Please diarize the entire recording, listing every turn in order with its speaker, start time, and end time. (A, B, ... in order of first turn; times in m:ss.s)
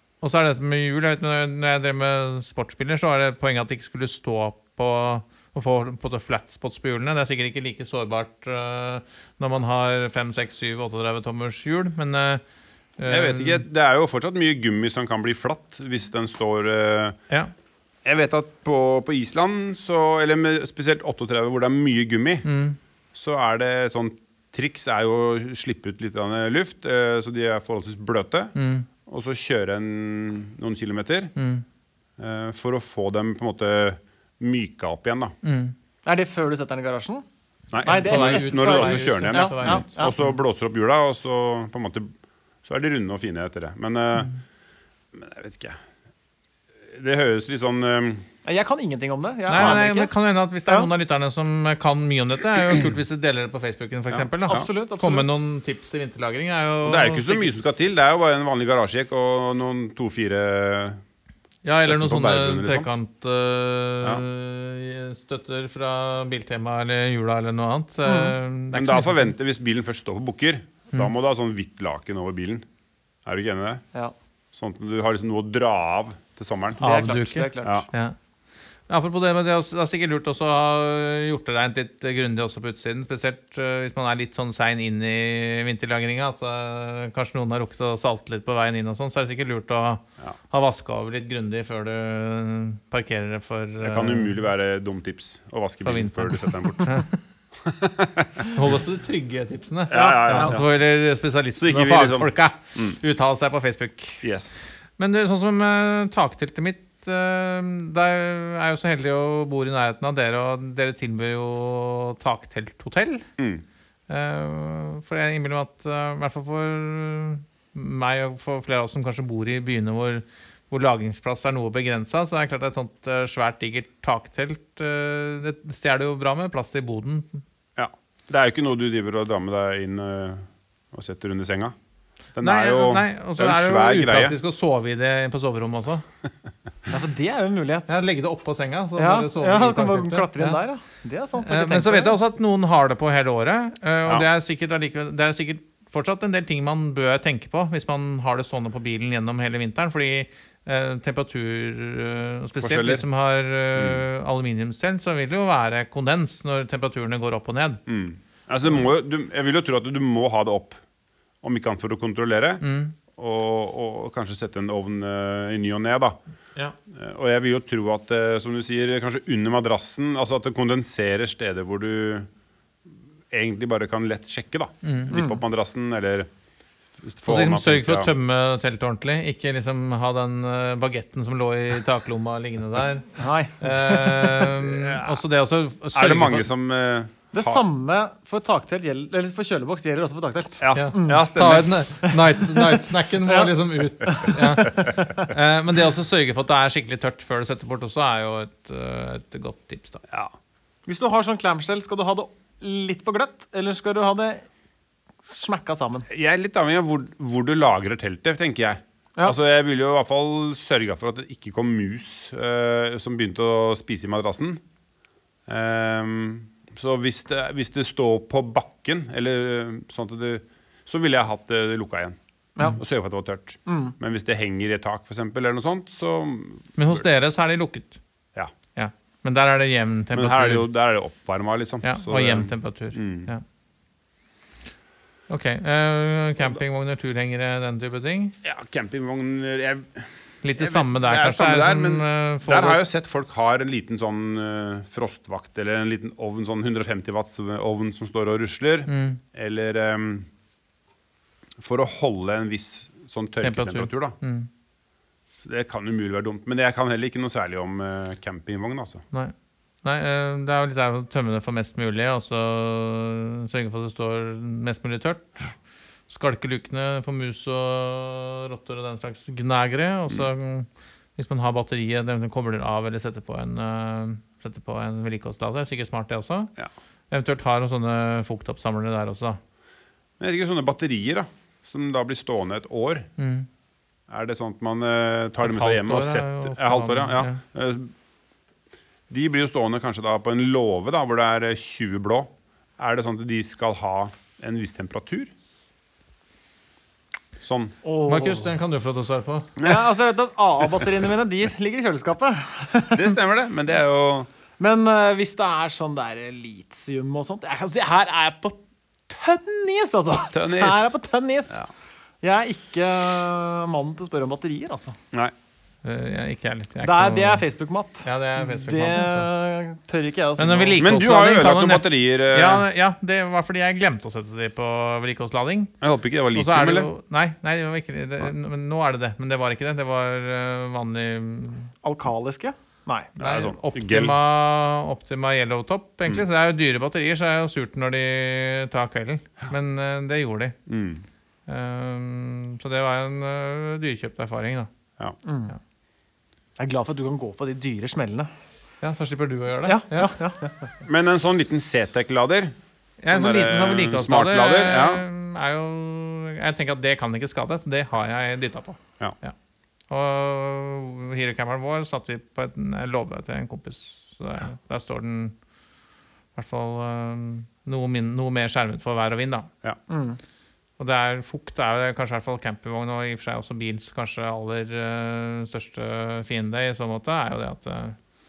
0:00.2-0:12.4 A
0:13.0-0:13.6 A
0:13.1-0:17.2 B
0:18.0-0:22.4 B
0:22.4-0:22.8 A
0:23.1-0:28.5 B
0:28.5-0:28.9 A
0:29.0-0:31.3 B
0:31.4-0:31.6 A
0:32.2-0:35.4 B
0:35.4-0:35.7 A
0:36.0-0:37.2 C
0:37.7-0:44.3 B
0:37.8-0:40.2 C
0:37.8-0:40.3 A
0:45.1-0:45.8 B
0:46.9-0:48.2 B
0:48.4-0:50.1 C
0:49.5-0:57.5 A
0:49.5-0:49.8 B
0:54.1-0:54.7 B
0:54.5-0:55.4 C
0:56.9-1:01.0 B
1:01.6-1:09.3 A
1:01.8-1:02.9 B
1:08.0-1:08.4 C
1:08.7-1:12.6 B
1:13.2-1:13.8 B
1:14.5-1:16.8 B
1:16.8-1:18.1 A
1:16.8-1:17.9 C
1:18.9-1:34.4 A
1:33.8-1:37.0 B
1:35.8-1:37.1 A
1:37.6-1:38.5 B
1:38.5-1:44.2 A
1:39.9-1:40.6 B
1:39.9-1:40.6 C
1:41.6-1:43.0 B
1:44.2-1:44.6 B
1:45.0-1:53.2 A
1:53.4-1:53.6 B
1:54.1-2:07.4 A
2:07.8-2:11.7 B
2:12.4-2:14.4 B
2:12.4-2:16.0 A
2:16.9-2:18.0 C
2:17.9-2:20.6 A
2:19.0-2:22.2 C
2:21.4-2:37.8 A
2:32.6-2:33.0 B
2:33.8-2:34.0 B
2:37.9-2:40.8 B
2:41.4-2:46.2 B
2:42.6-2:42.9 A
2:46.9-2:52.3 B
2:53.3-2:56.3 B
2:54.8-2:55.1 A
2:55.1-2:55.4 C
2:57.0-2:58.1 B
2:57.2-3:06.5 A
3:03.2-3:04.5 C
3:04.7-3:05.2 B
3:05.9-3:07.6 B
3:07.3-3:11.3 C
3:10.6-3:11.7 B
3:10.7-3:20.0 A
3:12.0-3:15.3 C
3:20.9-3:24.4 C
3:25.2-3:26.1 C
3:26.1-3:34.6 B
3:35.5-3:47.0 B
3:43.6-3:43.9 C
3:46.8-3:48.0 A
3:48.7-3:50.6 A
3:50.1-3:53.3 B
3:51.8-3:53.4 A
3:55.3-3:58.4 A
3:58.4-4:10.3 B
4:00.4-4:02.8 A
4:08.9-4:09.2 A
4:11.6-4:14.2 B
4:13.4-4:14.5 A
4:15.4-4:19.0 B
4:19.1-4:25.5 A
4:26.1-4:36.5 A
4:37.1-4:39.4 A
4:40.2-4:43.1 B
4:43.2-4:43.5 A
4:44.1-4:47.9 B
4:45.4-4:47.4 A
4:49.1-4:55.3 B
4:57.4-4:57.7 B
4:57.8-4:58.5 C
4:58.0-4:59.5 A
4:59.6-4:59.8 B
4:59.6-5:03.2 C
5:02.9-5:04.3 B
5:04.6-5:11.6 C
5:10.3-5:10.9 B
5:12.2-5:15.0 C
5:15.8-5:17.4 A
5:16.8-5:20.8 C
5:18.0-5:19.3 A
5:20.4-5:25.7 A
5:20.8-5:22.6 B
5:25.8-5:26.9 B
5:26.3-5:31.7 A
5:31.8-5:33.1 C
5:33.2-5:34.2 B
5:33.2-5:40.6 A
5:40.7-5:41.0 B
5:41.5-5:44.7 A
5:45.2-5:45.5 C
5:46.6-5:48.3 C
5:48.8-5:50.1 A
5:49.6-5:50.7 C
5:50.8-5:52.6 B
5:53.0-5:59.4 A
5:53.1-5:55.0 B
5:59.9-6:05.4 A
6:06.4-6:09.5 A
6:09.9-6:10.2 C
6:10.8-6:18.0 A